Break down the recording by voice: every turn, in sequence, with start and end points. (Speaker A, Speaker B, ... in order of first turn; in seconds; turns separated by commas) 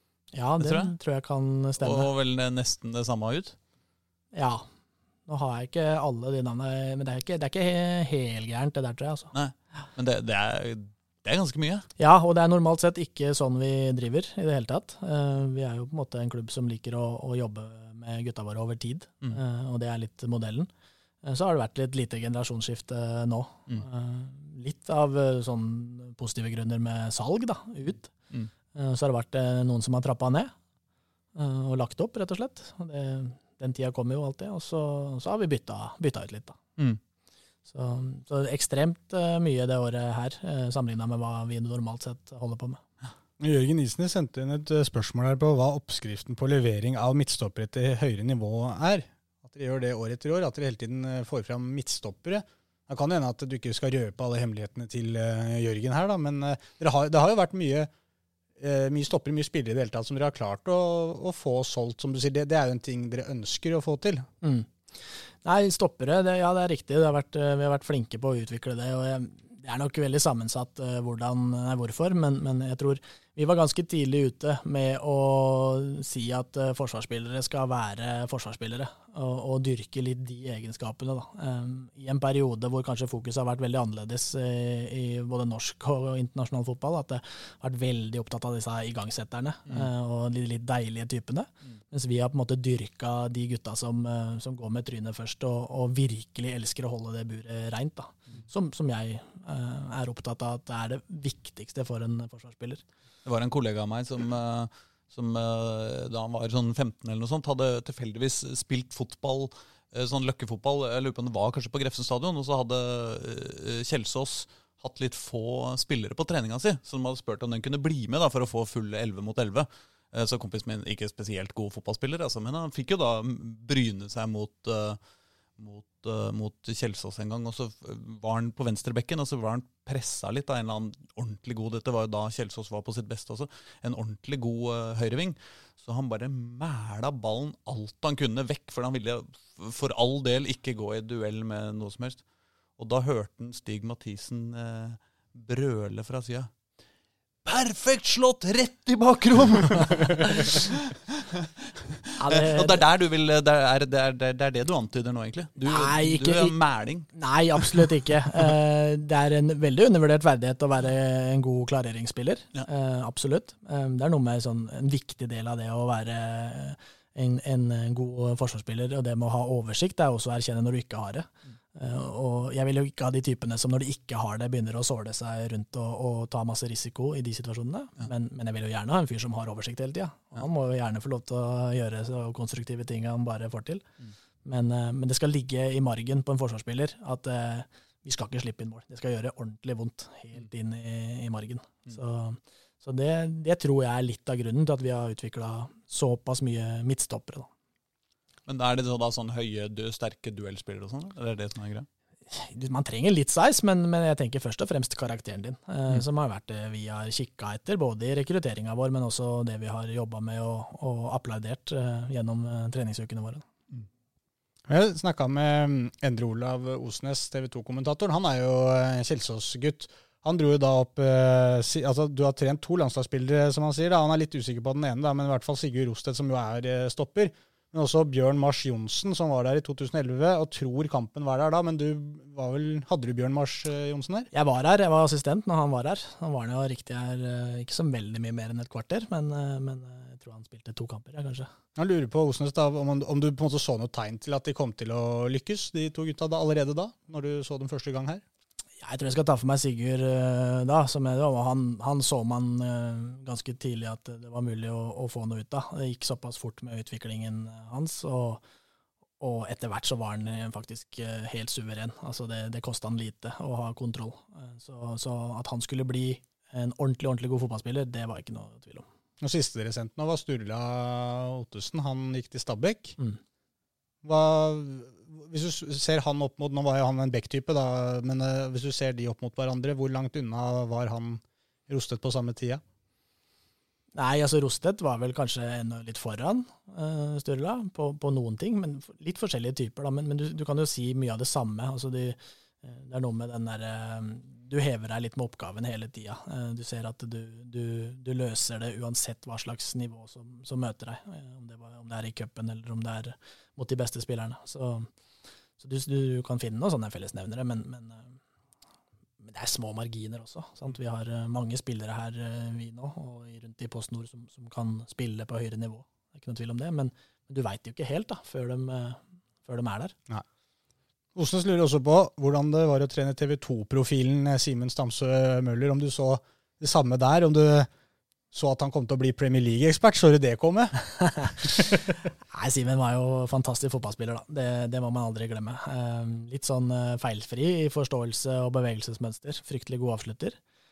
Speaker A: 0.3-2.1, Speaker B: 0.6-0.9, Speaker B: 1.8-3.5, Speaker A: 4.3-4.6, Speaker A: 5.3-9.3, Speaker B: 9.3-11.8, Speaker A: 12.0-20.7, Speaker A: 21.2-28.1, Speaker A: 28.7-30.5, Speaker A: 31.4-36.6, Speaker A: 37.7-42.8, Speaker C: 43.4-57.9, Speaker C: 58.6-64.2, Speaker A: 64.4-102.8, Speaker B: 103.2-125.0, Speaker B: 125.6-142.2, Speaker B: 142.8-146.5, Speaker B: 147.4-157.8, Speaker A: 152.2-152.8, Speaker A: 155.7-156.5, Speaker A: 157.1-183.8, Speaker A: 184.4-197.5, Speaker B: 198.5-201.9, Speaker A: 202.3-213.4, Speaker C: 214.7-234.3, Speaker A: 234.3-241.5, Speaker C: 241.8-248.2, Speaker A: 248.8-258.4, Speaker A: 259.2-268.8, Speaker C: 269.2-272.9, Speaker C: 274.0-282.6, Speaker A: 283.9-304.9, Speaker A: 305.6-308.2, Speaker A: 309.2-319.9, Speaker C: 321.1-327.7, Speaker C: 328.3-330.7, Speaker A: 330.8-340.4